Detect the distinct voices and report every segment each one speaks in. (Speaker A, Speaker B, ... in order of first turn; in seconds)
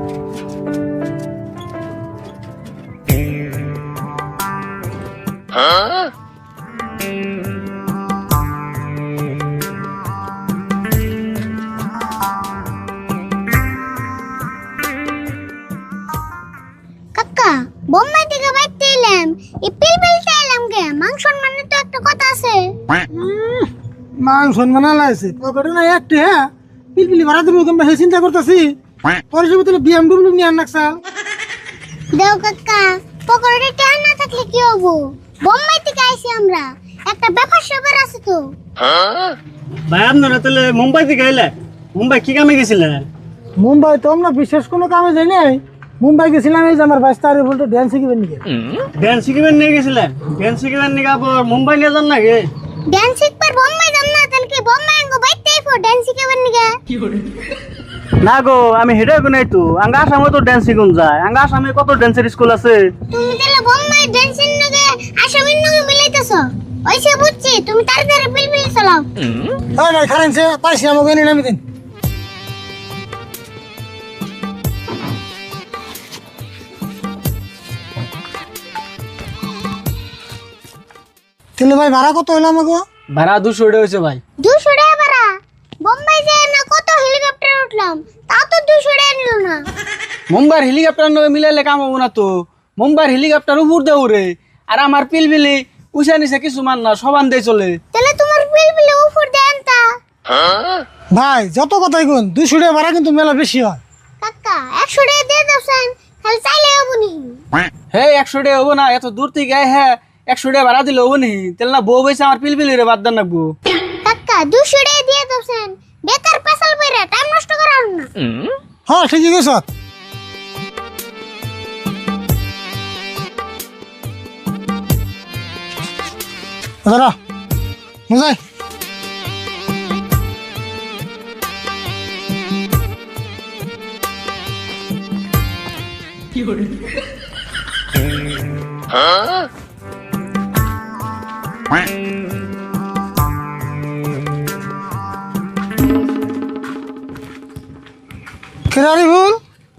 Speaker A: 17.1-22.7, 32.1-38.5, 52.9-56.8, 63.1-69.1, 84.4-85.3, 85.8-89.6, 97.9-99.8, 104.2-107.4, 114.0-118.1
Speaker B: 23.1-28.8, 29.3-31.0, 43.6-48.5, 69.8-71.6, 81.6-82.8, 101.1-103.8, 118.9-119.7, 126.8-127.2, 128.1-128.4, 148.7-149.4
Speaker C: 39.9-43.1, 49.0-52.5, 58.2-62.9, 83.1-84.2, 90.3-97.8, 107.9-113.5